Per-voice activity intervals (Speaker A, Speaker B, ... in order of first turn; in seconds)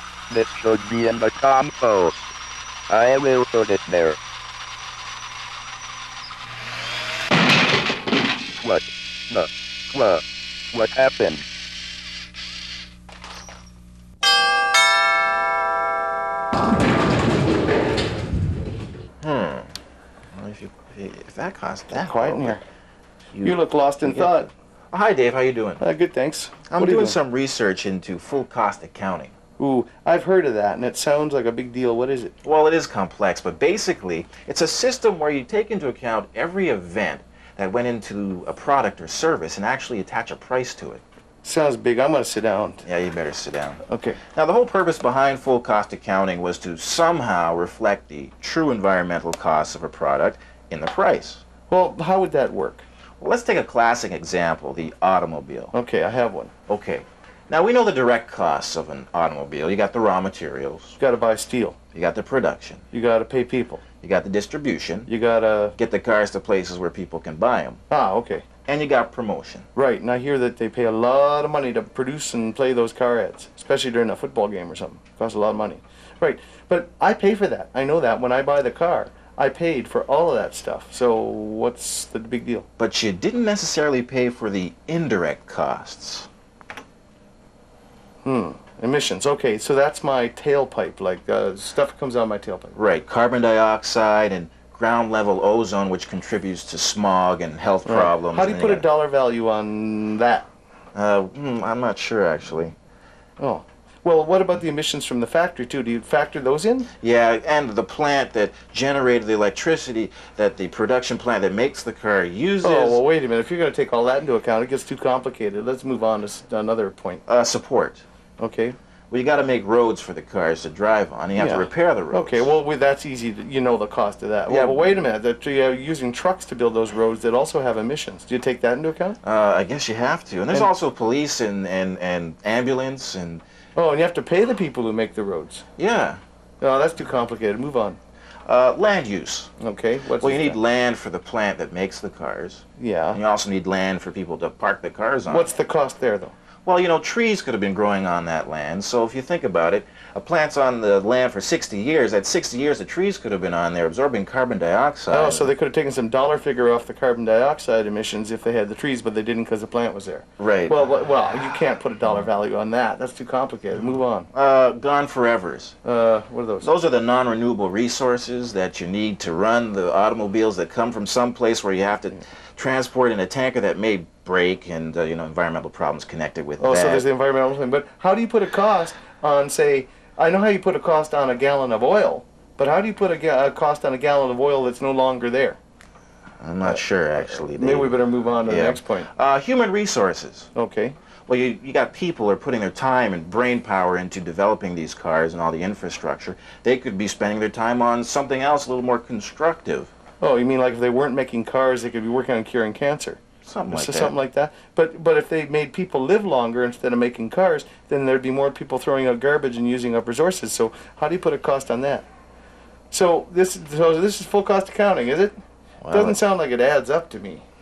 Speaker A: 0.3-2.2, 2.9-4.2, 8.6-11.4
Speaker B: 19.2-19.7, 20.3-22.6, 23.3-25.8, 26.7-29.3, 32.4-41.0, 42.8-51.4, 53.2-55.7, 56.7-61.0, 61.9-62.8, 64.0-65.1, 65.8-67.8, 68.7-69.7, 82.8-86.3, 92.7-98.9, 100.9-102.8, 107.0-113.0, 117.3-118.0, 119.1-122.5, 124.5-125.1, 129.2-133.4, 135.8-136.2, 138.4-139.5, 140.2-145.5, 146.6-155.5, 160.4-160.8, 164.3-165.8, 166.6-177.0, 186.4-190.5, 191.3-199.9, 203.4-204.1, 215.8-216.2
Speaker C: 21.9-22.6, 23.4-24.5, 25.8-27.2, 29.6-32.3, 41.4-42.8, 43.9-44.2, 51.7-52.8, 55.7-56.5, 61.0-61.8, 62.9-63.8, 65.1-65.8, 67.9-68.5, 69.7-82.7, 88.2-92.8, 97.8-100.5, 103.4-106.9, 112.6-117.2, 118.4-118.8, 121.3-129.2, 133.8-135.6, 136.6-138.0, 139.6-140.6, 142.8-143.2, 145.3-146.3, 155.1-164.3, 165.8-166.7, 176.6-185.6, 186.6-189.1, 190.5-191.0, 200.2-212.1, 212.9-215.4, 215.9-217.4